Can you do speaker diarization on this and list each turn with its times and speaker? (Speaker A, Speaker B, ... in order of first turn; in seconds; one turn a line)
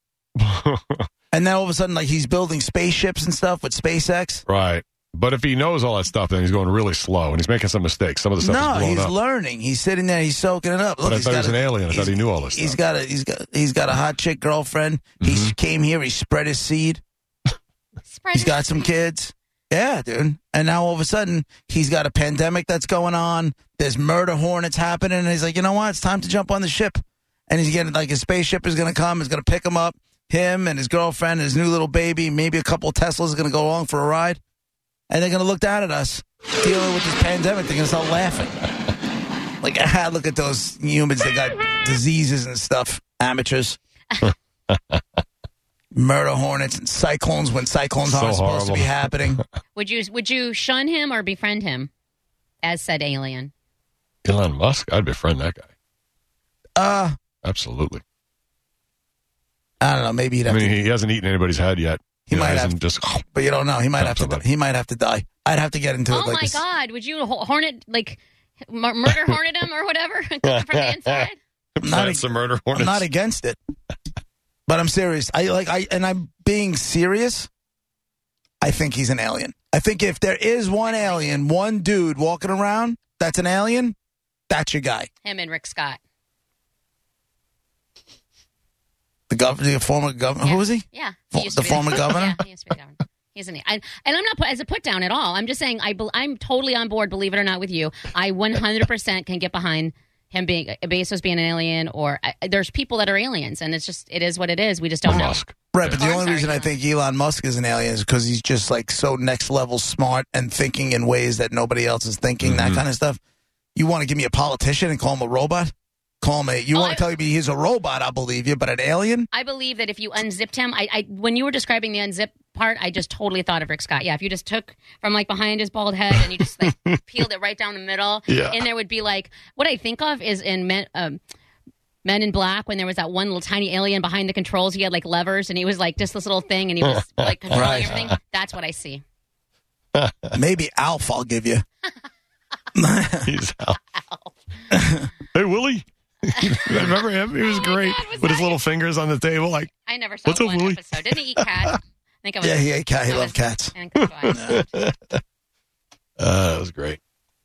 Speaker A: 0.4-1.0
Speaker B: 1.3-4.4
Speaker A: 4.5-9.1
Speaker B: 8.4-17.0
Speaker A: 11.0-12.8
Speaker A: 15.2-15.5
Speaker C: 18.0-18.9
Speaker B: 18.3-34.4
Speaker B: 35.1-38.7
Speaker B: 39.6-43.8
Speaker A: 44.7-45.0
Speaker B: 45.9-49.4
Speaker A: 48.0-49.4
Speaker C: 49.7-51.9
Speaker C: 52.6-53.5
Speaker A: 54.2-55.7
Speaker B: 56.8-57.1
Speaker A: 57.4-58.0
Speaker B: 59.8-60.8
Speaker A: 60.5-63.2
Speaker B: 62.3-66.6
Speaker A: 64.0-64.4
Speaker C: 66.1-71.4
Speaker A: 70.5-73.1
Speaker B: 71.8-73.6
Speaker B: 74.7-77.5
Speaker B: 78.6-83.9
Speaker C: 80.8-81.4
Speaker B: 84.5-85.1
Speaker C: 85.2-86.0
Speaker B: 89.3-92.4
Speaker C: 90.4-105.4
Speaker A: 105.0-106.0
Speaker B: 105.7-113.2
Speaker C: 105.9-106.7
Speaker A: 112.4-112.8
Speaker B: 113.7-119.3
Speaker C: 116.7-117.0
Speaker C: 119.3-131.2
Speaker A: 126.2-127.0
Speaker A: 128.3-128.7
Speaker C: 132.0-139.0
Speaker A: 136.9-138.1
Speaker B: 137.5-138.0
Speaker A: 139.9-140.3
Speaker B: 140.3-141.6
Speaker B: 142.7-143.3
Speaker A: 143.2-143.8
Speaker C: 143.9-144.3
Speaker B: 144.7-145.1
Speaker A: 145.3-149.7
Speaker C: 147.4-148.6
Speaker C: 149.8-154.6
Speaker A: 150.2-151.7
Speaker B: 152.4-153.7
Speaker A: 154.1-155.2
Speaker A: 156.2-157.0